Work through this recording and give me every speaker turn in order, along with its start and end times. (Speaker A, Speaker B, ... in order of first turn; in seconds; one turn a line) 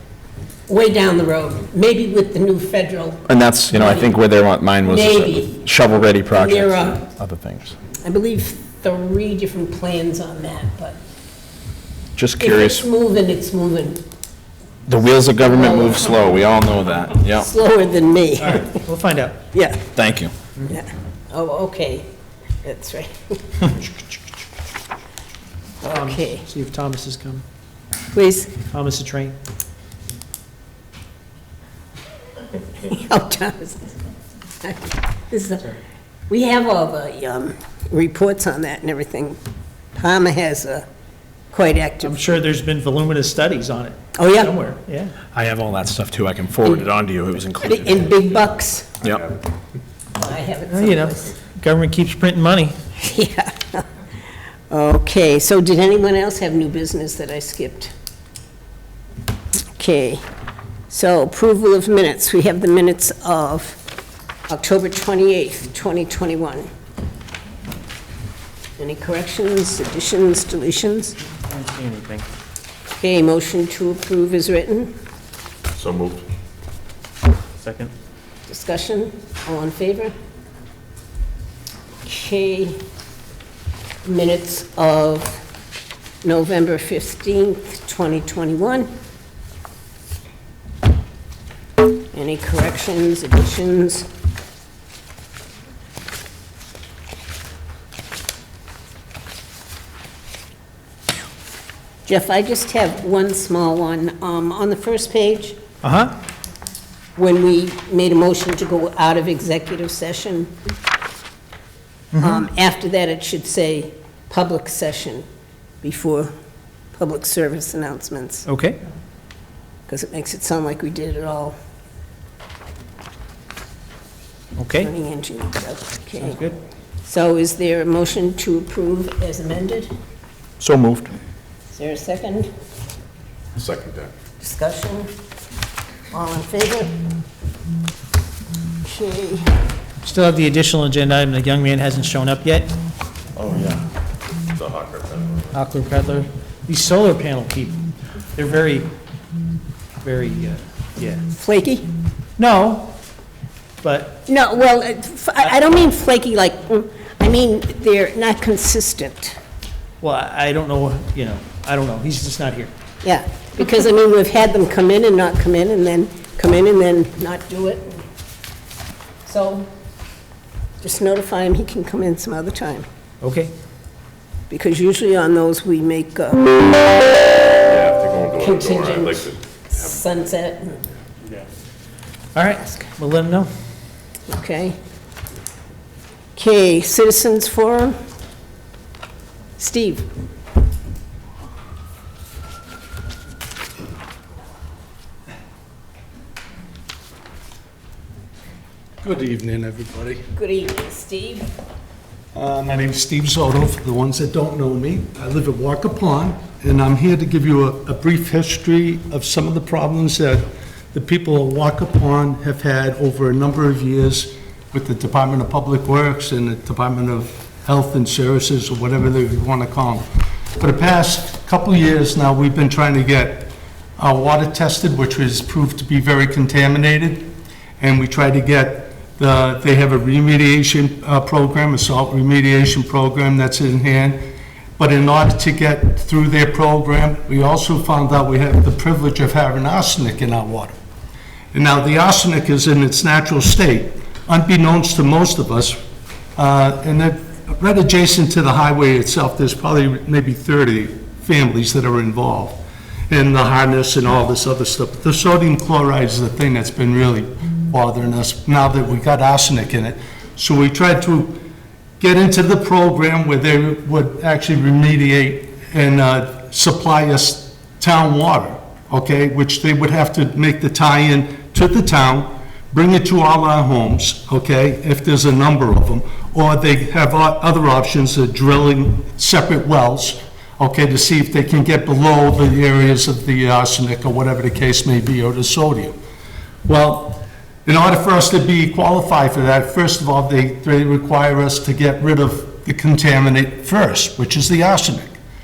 Speaker A: 0.7-4.2
Speaker B: 3.3-7.7
Speaker A: 4.8-5.7
Speaker A: 6.3-7.1
Speaker A: 8.0-11.0
Speaker B: 12.2-12.9
Speaker A: 12.4-14.0
Speaker B: 14.9-17.5
Speaker A: 15.4-16.3
Speaker A: 17.2-18.8
Speaker C: 18.4-19.4
Speaker A: 19.5-19.9
Speaker B: 19.9-20.3
Speaker A: 20.6-22.1
Speaker A: 22.6-23.7
Speaker A: 25.8-26.4
Speaker C: 25.8-27.4
Speaker A: 28.1-28.6
Speaker C: 28.6-29.4
Speaker A: 32.8-33.9
Speaker A: 34.6-35.8
Speaker A: 36.3-39.4
Speaker A: 40.0-40.8
Speaker A: 41.5-42.2
Speaker C: 42.0-45.2
Speaker A: 44.1-44.5
Speaker B: 45.3-48.1
Speaker A: 47.6-48.9
Speaker A: 50.1-51.4
Speaker C: 50.7-52.8
Speaker A: 53.0-53.9
Speaker A: 54.7-57.9
Speaker A: 59.7-60.2
Speaker A: 60.9-63.8
Speaker A: 64.5-66.7
Speaker A: 68.8-71.2
Speaker C: 71.5-72.2
Speaker A: 73.0-74.9
Speaker D: 75.8-76.2
Speaker C: 77.6-77.9
Speaker A: 78.5-80.1
Speaker A: 82.0-82.8
Speaker A: 84.0-85.4
Speaker A: 86.2-88.9
Speaker A: 92.1-94.1
Speaker A: 102.0-105.6
Speaker C: 105.8-106.1
Speaker A: 107.2-110.5
Speaker C: 112.1-112.4
Speaker A: 112.2-115.2
Speaker A: 115.8-116.3
Speaker A: 116.9-118.5
Speaker C: 118.5-118.8
Speaker A: 119.9-121.5
Speaker C: 124.6-124.9
Speaker A: 124.7-126.4
Speaker C: 126.2-126.6
Speaker A: 127.0-129.9
Speaker B: 130.6-131.1
Speaker A: 131.7-132.5
Speaker D: 133.6-134.1
Speaker A: 134.4-135.1
Speaker A: 136.1-136.9
Speaker A: 138.8-139.4
Speaker C: 140.0-142.7
Speaker D: 143.3-143.8
Speaker D: 144.6-145.5
Speaker C: 145.5-147.8
Speaker C: 148.3-148.9
Speaker C: 150.0-151.2
Speaker A: 151.3-151.8
Speaker C: 152.4-152.9
Speaker C: 153.8-154.2
Speaker A: 154.3-159.3
Speaker C: 160.0-162.7
Speaker A: 163.0-168.0
Speaker A: 169.2-169.7
Speaker A: 170.8-172.9
Speaker C: 173.2-173.5
Speaker A: 174.5-177.1
Speaker D: 177.7-180.0
Speaker A: 178.4-180.8
Speaker C: 182.3-183.5
Speaker A: 184.3-184.8
Speaker A: 186.3-188.0
Speaker A: 189.6-190.1
Speaker E: 199.0-200.2
Speaker A: 200.3-201.5
Speaker E: 202.3-220.0
Speaker E: 220.6-234.2
Speaker E: 234.8-240.7
Speaker E: 241.5-245.8
Speaker E: 246.4-261.4
Speaker E: 262.0-285.9
Speaker E: 286.7-295.1